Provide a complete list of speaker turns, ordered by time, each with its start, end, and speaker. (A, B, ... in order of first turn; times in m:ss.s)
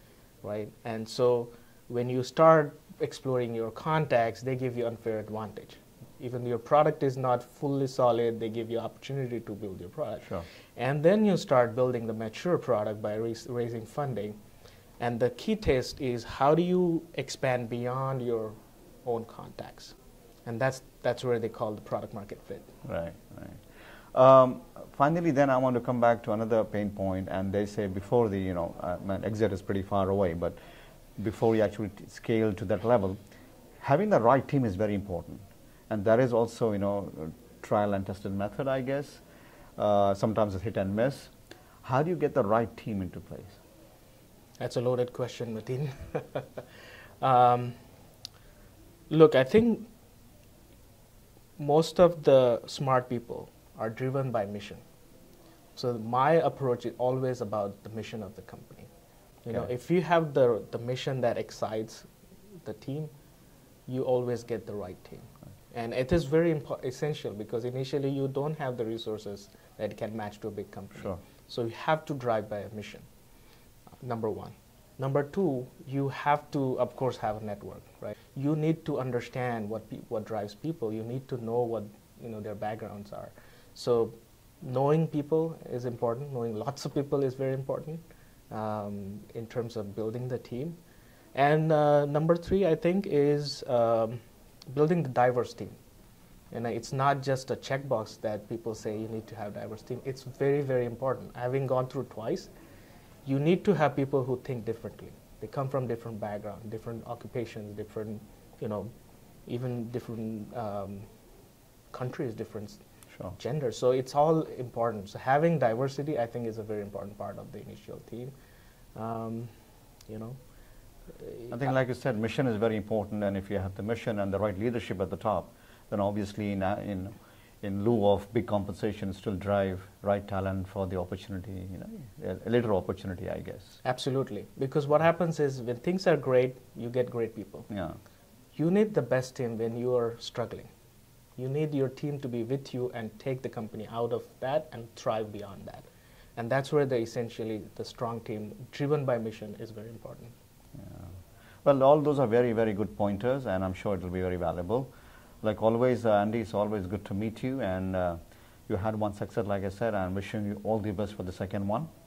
0:00.4-0:14.4 A
0:15.0-0:22.7 A
0:22.8-0:30.6 B
0:31.2-0:33.2 B
0:33.8-0:39.2 B
0:39.8-0:41.3 B
0:41.8-0:43.6 B
0:44.6-0:46.7 A
0:47.2-0:47.8 A
0:49.1-0:49.9 A
0:51.6-0:54.8 A
0:55.8-0:58.9 A
0:59.4-1:02.1 A
1:02.6-1:03.1 A
1:03.9-1:13.1 A
1:14.0-1:30.8 A
1:31.3-1:35.8 A
1:36.5-1:42.5 A
1:43.2-1:48.9 A
1:49.5-1:51.1 A
1:51.9-1:58.3 A
1:59.0-1:59.5 A
2:00.1-2:00.4 A
2:01.1-2:01.7 A
2:01.5-2:13.8 B
2:13.8-2:17.7 A
2:17.7-2:18.0 B
2:18.5-2:20.7 A
2:21.4-2:30.4 A
2:30.8-2:31.1 B
2:31.6-2:41.9 B